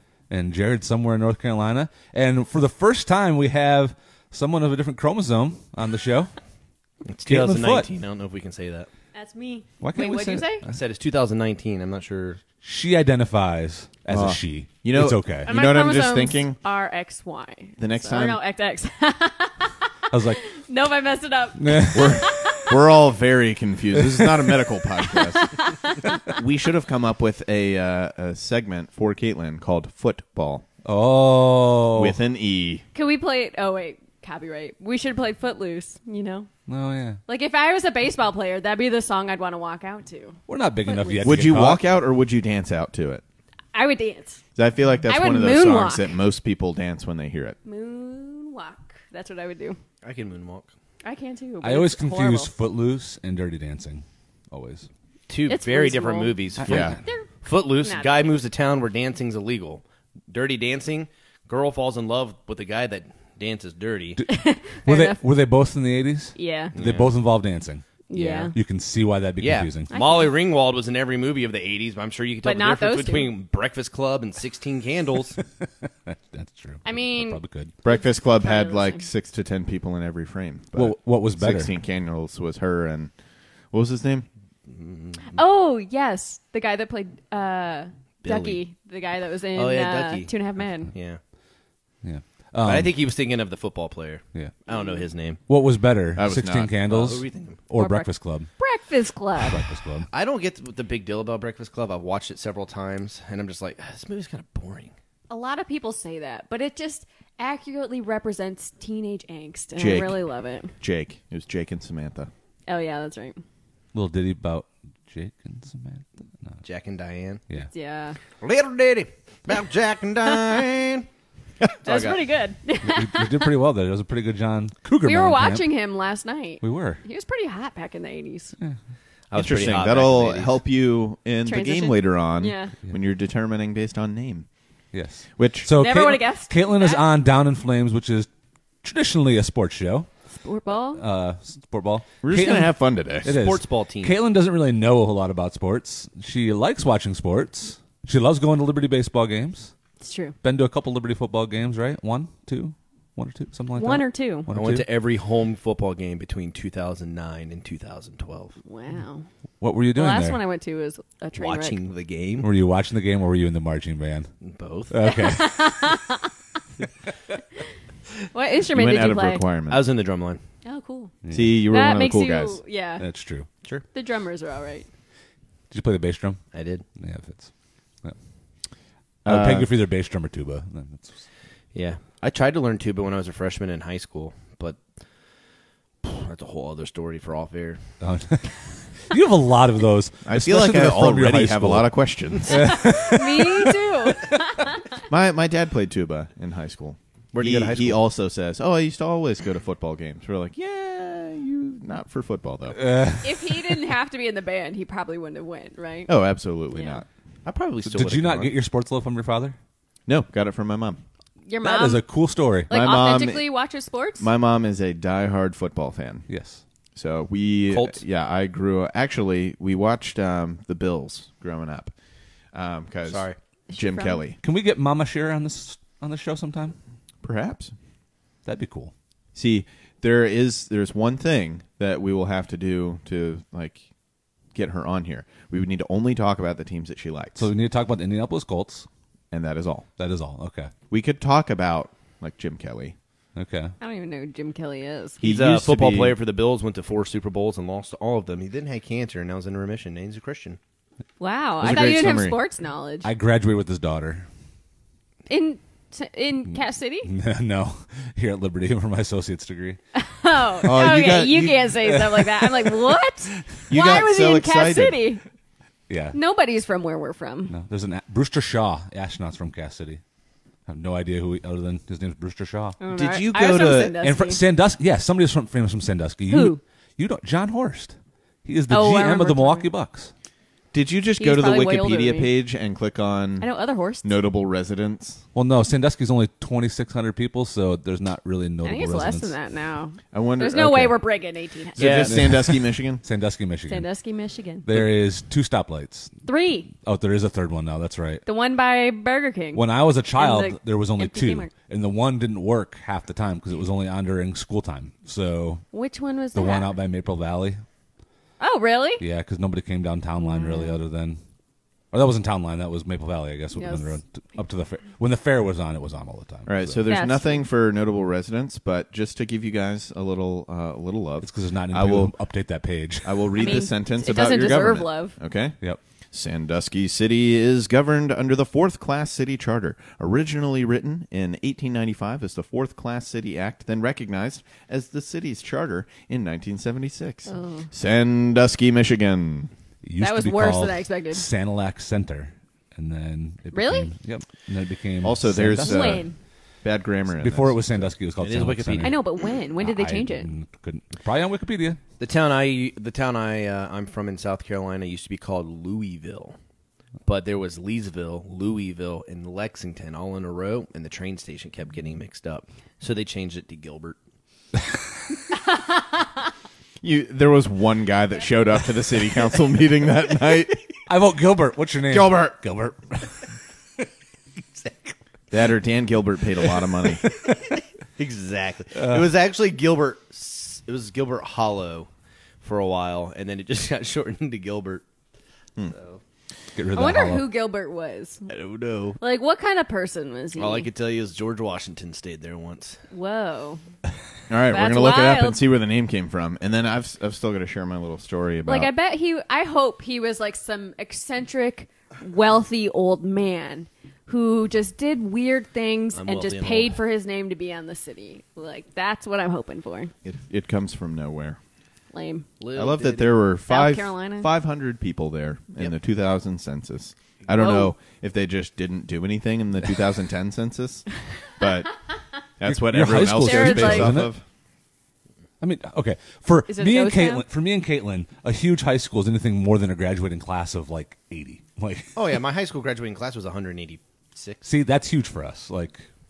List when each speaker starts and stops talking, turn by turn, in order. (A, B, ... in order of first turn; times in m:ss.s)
0:00.3-0:06.3 A
0:07.1-0:08.9 B
0:07.3-0:07.9 A
0:09.1-0:10.6 C
0:09.8-0:10.6 A
0:10.6-0:12.4 B
0:12.6-0:15.5 A
0:14.1-0:16.6 D
0:15.4-0:22.8 C
0:17.8-0:18.4 D
0:20.1-0:20.4 A
0:21.6-0:22.2 A
0:21.9-0:25.6 D
0:25.2-0:26.2 C
0:26.3-0:30.6 D
0:30.8-0:32.2 A
0:31.9-0:32.8 D
0:32.9-0:36.5 C
0:36.7-0:37.2 A
0:37.3-0:41.4 C
0:40.5-0:41.8 A
0:41.2-0:43.2 D
0:43.7-0:44.4 C
0:44.6-0:47.6 D
0:45.1-0:46.2 C
0:47.6-0:49.8 C
0:50.0-0:50.7 B
0:51.0-0:52.5 C
0:51.6-0:54.9 A
0:55.3-0:56.9 B
0:55.5-0:56.4 C
0:56.6-0:57.0 A
0:56.6-0:57.0 D
0:57.0-0:57.3 C
0:57.4-1:04.2 B
0:57.8-0:58.4 C
1:04.3-1:05.2 C
1:04.8-1:07.9 A
1:06.4-1:06.8 C
1:06.8-1:07.2 B
1:08.1-1:08.6 C
1:08.1-1:08.5 B
1:08.5-1:09.9 A
1:09.4-1:15.4 B
1:09.9-1:10.4 C
1:12.4-1:13.3 C
1:15.6-1:17.7 A
1:16.8-1:19.0 C
1:17.8-1:23.1 D
1:20.8-1:21.7 A
1:23.7-1:24.3 D
1:24.7-1:25.4 B
1:25.3-1:30.9 C
1:28.2-1:28.6 B
1:29.5-1:31.2 B
1:32.0-1:33.0 A
1:32.6-1:35.4 B
1:34.7-1:35.0 C
1:35.5-1:38.5 A
1:36.2-1:36.7 D
1:36.9-1:37.6 B
1:37.8-1:39.6 C
1:39.4-1:40.1 A
1:40.1-1:44.9 B
1:45.3-1:50.7 C
1:49.8-1:50.2 D
1:50.8-1:52.3 D
1:52.7-1:53.4 C
1:53.9-1:56.6 A
1:56.6-1:57.4 B
1:57.7-1:58.2 C
1:58.4-2:01.1 B
2:01.8-2:02.2 B
2:01.8-2:03.5 C
2:02.8-2:05.7 A
2:05.0-2:08.6 C
2:06.6-2:07.0 A
2:09.3-2:10.6 B
2:09.3-2:14.5 D
2:11.4-2:12.7 C
2:14.9-2:18.3 A
2:15.4-2:15.7 D
2:15.7-2:17.1 C
2:18.8-2:20.1 A
2:20.4-2:21.0 C
2:20.9-2:29.7 A
2:22.2-2:23.3 D
2:23.2-2:24.2 B
2:30.0-2:30.4 C
2:30.4-2:34.9 A
2:33.8-2:34.5 C
2:34.5-2:38.6 B
2:38.6-2:39.3 C
2:39.6-2:40.4 A
2:40.0-2:41.8 C
2:41.4-2:42.5 B
2:42.4-2:44.3 A
2:44.4-2:45.0 B
2:44.9-2:45.8 A
2:45.0-2:46.3 C
2:48.3-2:49.4 C
2:48.7-2:49.8 D
2:49.7-2:50.4 B
2:50.6-2:51.1 C
2:51.2-2:51.6 A
2:51.3-2:52.6 D
2:51.7-2:53.0 C
2:53.0-2:53.5 A
2:53.9-2:54.9 C
2:55.7-2:56.4 A
2:56.5-2:56.8 B
2:57.0-2:57.5 A
2:59.2-2:59.7 D
2:59.3-3:01.2 A
3:01.7-3:04.8 B
3:06.0-3:07.8 B
3:08.0-3:11.9 A
3:10.3-3:12.9 D
3:12.5-3:13.7 A
3:12.5-3:14.8 C
3:15.1-3:22.8 D
3:17.3-3:18.0 B
3:22.8-3:23.6 A
3:23.2-3:26.2 C
3:26.1-3:27.1 D
3:26.7-3:27.0 C
3:27.4-3:28.6 B
3:27.8-3:29.6 A
3:30.1-3:31.0 D
3:31.5-3:32.0 C
3:31.6-3:32.7 A
3:32.7-3:34.3 C
3:32.7-3:33.5 D
3:34.2-3:36.3 D
3:36.3-3:36.6 A
3:37.0-3:41.9 D
3:37.7-3:38.0 B
3:42.5-3:44.4 D
3:43.1-3:43.4 B
3:43.7-3:44.2 C
3:44.4-3:46.8 A
3:47.2-3:47.7 D
3:48.4-3:48.9 A
3:49.4-3:53.8 D
3:54.5-3:57.5 D
3:57.4-3:58.9 A
3:59.3-3:59.9 D
4:00.0-4:00.7 A
4:00.9-4:03.0 D
4:03.4-4:03.7 A
4:03.8-4:05.2 C
4:05.2-4:10.6 B
4:05.2-4:06.2 D
4:11.2-4:13.1 C
4:11.6-4:12.4 D
4:13.0-4:14.3 A
4:15.3-4:17.1 C
4:16.5-4:19.8 A
4:20.0-4:25.2 C
4:20.6-4:21.8 D
4:21.8-4:23.4 A
4:23.7-4:25.0 D
4:25.9-4:26.2 A
4:26.1-4:27.5 C
4:27.5-4:30.0 A
4:30.7-4:32.8 A
4:32.8-4:34.4 C
4:32.9-4:34.0 D
4:34.0-4:40.1 A
4:36.3-4:36.6 C
4:38.7-4:39.7 C
4:40.7-4:43.5 D
4:41.2-4:42.3 C
4:43.4-4:44.1 C
4:44.0-4:45.2 D
4:45.4-4:49.4 A
4:48.6-4:52.1 C
4:50.1-4:51.0 D
4:51.8-4:53.0 D
4:51.8-4:52.2 B
4:52.0-4:53.9 A
4:53.7-4:54.7 C
4:54.6-4:58.2 A
4:56.2-4:56.7 C
4:58.3-4:59.6 C
4:59.6-5:05.6 A
5:00.2-5:01.5 C
5:05.7-5:06.7 C
5:06.4-5:07.6 A
5:08.4-5:09.0 C
5:09.0-5:11.2 A
5:10.2-5:10.8 C
5:11.9-5:16.8 A
5:13.6-5:14.0 C
5:16.5-5:22.2 D
5:16.9-5:17.5 C
5:21.2-5:23.2 A
5:23.0-5:25.6 D
5:23.4-5:25.2 C
5:26.1-5:39.5 D
5:37.3-5:37.7 C
5:39.8-5:46.0 A
5:40.0-5:41.3 C
5:43.5-5:43.9 C
5:45.0-5:46.1 D
5:45.5-5:46.2 C
5:46.6-5:47.9 D
5:47.1-5:49.1 A
5:48.2-5:49.1 B
5:48.8-5:50.3 C
5:49.6-5:51.8 A
5:52.0-5:56.4 B
5:57.1-6:04.0 B
6:06.8-6:10.6 D
6:10.9-6:13.0 A
6:11.9-6:12.7 B
6:15.3-6:17.0 D
6:16.8-6:21.9 B
6:18.8-6:19.1 A
6:22.4-6:24.8 B
6:25.7-6:26.0 B
6:26.5-6:27.3 A
6:26.8-6:28.2 C
6:28.3-6:29.0 B
6:29.0-6:30.7 C
6:30.4-6:32.8 B
6:32.9-6:33.6 C
6:34.3-6:38.7 D
6:34.5-6:35.4 C
6:38.5-6:49.9 C
6:45.9-6:46.8 B
6:50.0-6:51.4 D
6:51.9-6:52.3 C
6:52.4-6:53.2 B
6:52.5-7:01.7 D
6:53.5-6:54.3 C
6:57.4-6:57.7 C
7:02.4-7:04.2 D
7:02.4-7:04.1 A
7:03.2-7:04.0 C
7:05.4-7:12.1 A
7:06.5-7:07.3 C
7:12.0-7:14.5 B
7:14.4-7:15.9 A